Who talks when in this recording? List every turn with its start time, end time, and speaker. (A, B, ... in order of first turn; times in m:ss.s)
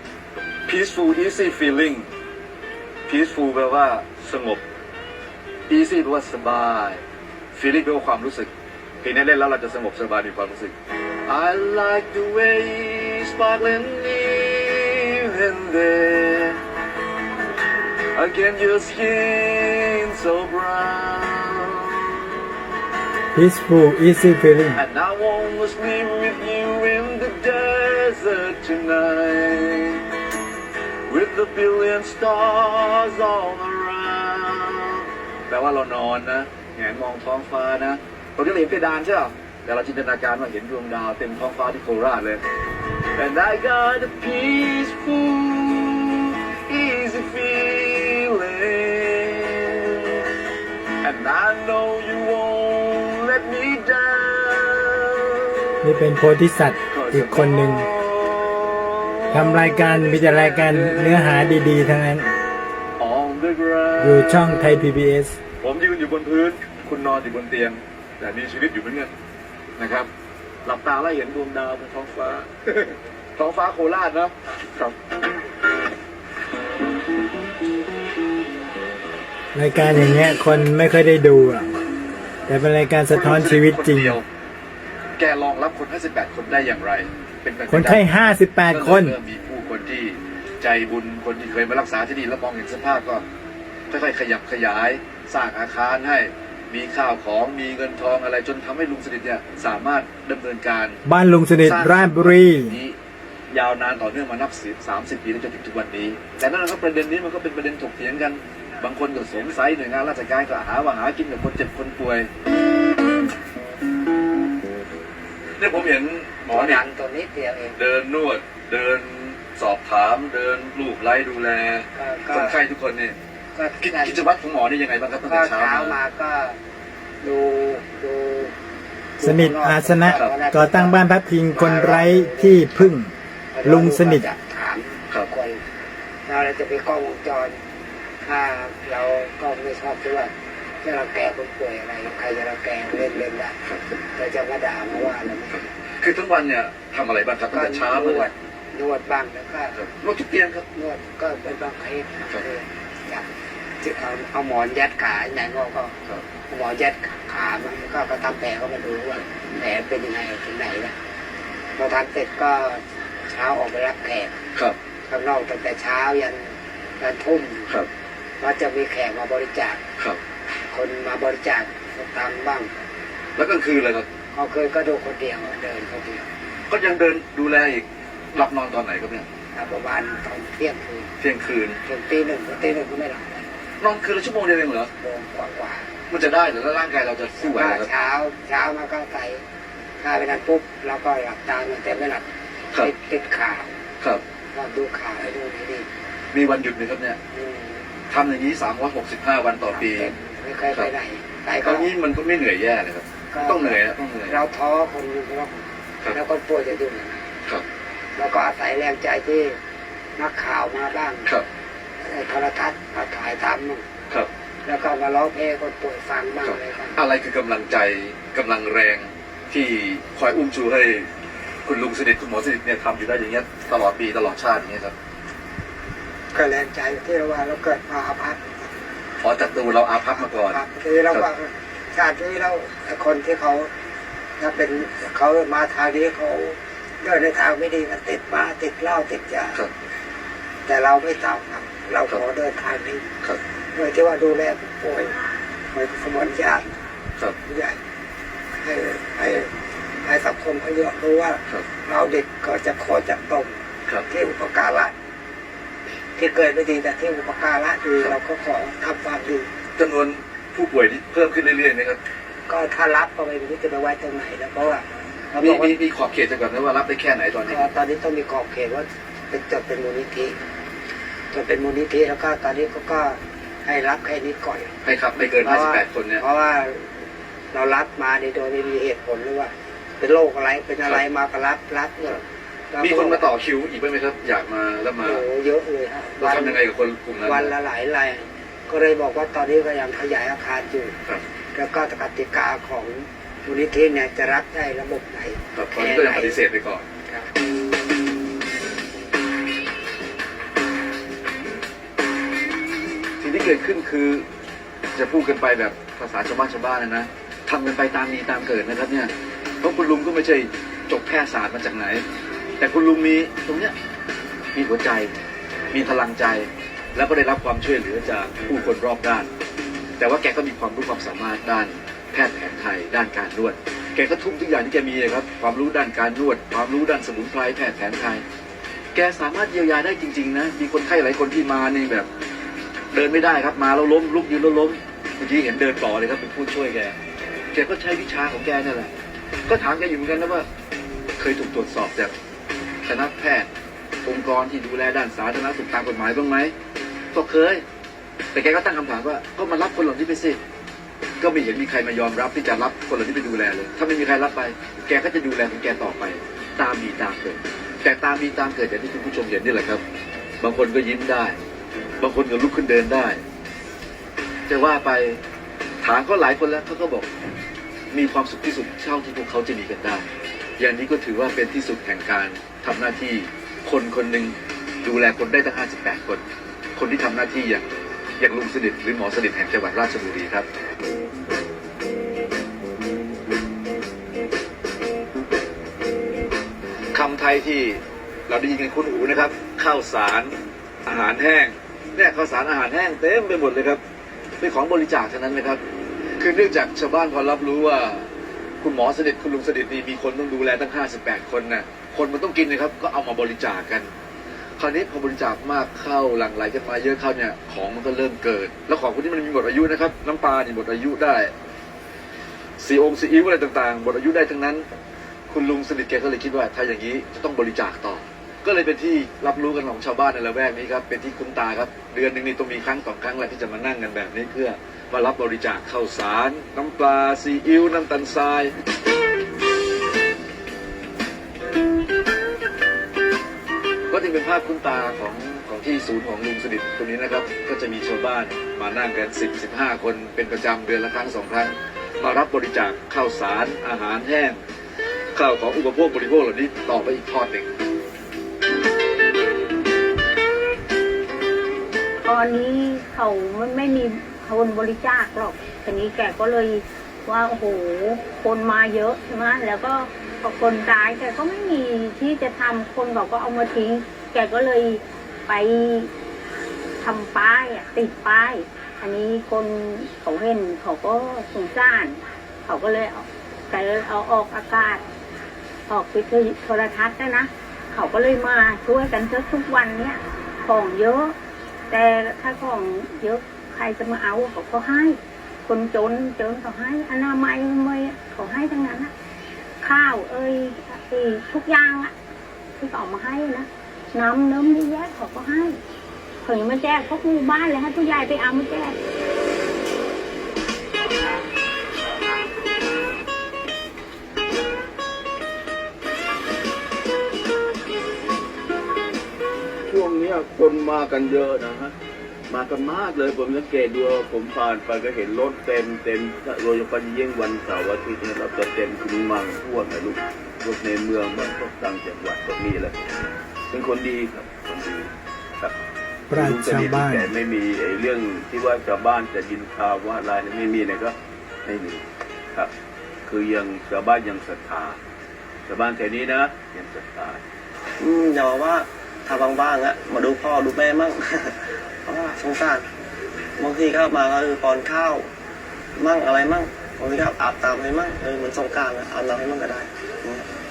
0:00.7-0:02.1 A
0:03.1-0:04.6 A
0:05.7-0:07.0 A
0:07.5-0:08.5 A
0:09.0-0:10.7 A
0:11.3-0:16.6 A
0:18.1-0:22.0 A
0:23.3-0:24.8 B
0:24.7-0:30.0 A
0:31.1-0:42.4 A
0:43.2-0:50.2 A
0:51.0-0:56.0 A
0:55.8-0:57.9 B
0:56.9-1:01.6 A
0:59.3-1:02.3 B
1:03.0-1:04.8 A
1:04.0-1:05.4 B
1:05.6-1:09.1 A
1:09.8-1:10.1 A
1:10.6-1:14.9 A
1:19.5-1:21.7 B
1:22.5-1:24.2 B
1:23.1-1:24.2 A
1:25.2-1:28.1 A
1:27.7-1:29.2 B
1:28.7-1:33.2 A
1:33.9-1:41.0 A
1:41.0-1:42.8 B
1:41.6-1:43.0 A
1:43.5-1:52.3 A
1:55.6-1:56.8 A
1:56.5-1:57.8 C
1:57.8-2:03.2 A
2:01.9-2:02.6 C
2:03.5-2:04.2 C
2:03.8-2:06.0 A
2:05.2-2:06.6 C
2:07.2-2:08.5 C
2:09.2-2:12.9 C
2:09.2-2:13.1 B
2:13.5-2:15.6 C
2:13.6-2:14.2 B
2:16.3-2:17.6 C
2:18.2-2:23.6 C
2:24.2-2:25.6 C
2:25.5-2:28.3 A
2:27.5-2:29.8 C
2:29.7-2:30.6 A
2:30.7-2:33.3 C
2:33.8-2:35.9 C
2:36.5-2:40.9 C
2:41.8-2:44.4 C
2:45.1-2:47.7 C
2:48.4-2:49.8 C
2:50.7-2:52.7 C
2:53.4-2:54.0 A
2:54.3-2:56.3 C
2:56.7-2:59.2 A
2:59.5-3:01.1 C
3:01.2-3:01.8 A
3:01.8-3:03.5 C
3:03.8-3:04.9 A
3:05.0-3:05.9 C
3:06.1-3:07.9 A
3:07.3-3:09.4 C
3:10.0-3:13.7 C
3:14.5-3:15.9 C
3:16.3-3:17.2 A
3:17.3-3:17.8 C
3:18.1-3:20.1 A
3:19.7-3:21.9 C
3:21.6-3:24.4 A
3:23.3-3:27.2 C
3:28.2-3:29.6 C
3:30.2-3:31.3 C
3:32.0-3:33.8 C
3:34.6-3:37.0 C
3:36.4-3:41.1 A
3:41.6-3:44.9 A
3:46.3-3:48.7 C
3:49.2-3:50.6 A
3:50.0-3:53.7 C
3:54.4-3:59.6 C
4:00.6-4:03.0 C
4:03.7-4:05.1 C
4:05.7-4:06.8 C
4:07.4-4:07.8 C
4:08.6-4:09.5 C
4:10.0-4:14.9 C
4:16.1-4:19.5 C
4:19.8-4:22.0 A
4:22.5-4:25.8 C
4:25.4-4:27.7 A
4:27.4-4:30.4 C
4:31.3-4:34.7 C
4:34.8-4:36.2 A
4:35.4-4:36.9 C
4:37.5-4:43.3 C
4:42.8-4:45.2 A
4:45.0-4:46.6 C
4:46.2-4:47.5 A
4:47.2-4:50.9 C
4:51.5-4:56.4 C
4:55.5-4:56.8 A
5:03.2-5:04.2 A
5:04.9-5:12.0 A
5:12.6-5:13.7 A
5:14.5-5:15.1 A
5:15.7-5:19.3 A
5:20.0-5:28.2 A
5:28.9-5:32.1 A
5:32.9-5:37.0 A
5:37.5-5:38.9 A
5:39.5-5:40.5 A
5:41.2-5:42.1 A
5:42.8-5:43.5 A
5:44.0-5:46.5 A
5:47.1-5:47.6 A
5:48.3-5:50.4 A
5:51.2-5:59.8 A
6:00.4-6:01.4 A
6:02.0-6:03.2 A
6:04.5-6:05.2 A
6:05.8-6:07.1 A
6:07.9-6:10.1 A
6:10.6-6:16.2 A
6:16.8-6:17.6 A
6:18.2-6:20.4 A
6:26.9-6:30.3 A
6:30.8-6:33.8 A
6:34.4-6:35.6 A
6:36.2-6:38.1 A
6:38.6-6:43.9 A
6:44.6-6:51.3 A
6:52.6-6:54.7 A
6:55.3-7:08.5 A
7:13.9-7:24.4 A
7:25.1-7:27.5 A
7:32.0-7:45.9 D
7:46.8-7:54.8 D
7:55.7-8:01.1 D
8:01.7-8:08.9 D
8:09.6-8:11.9 D
8:12.6-8:15.6 D
8:16.2-8:18.8 D
8:29.7-8:31.7 E
8:32.3-8:45.5 E
8:46.1-8:47.1 B
8:46.1-8:51.8 E
8:53.0-8:54.8 E
8:55.5-8:57.2 E
8:57.8-9:02.7 F
9:03.4-9:05.1 F
9:05.8-9:10.3 F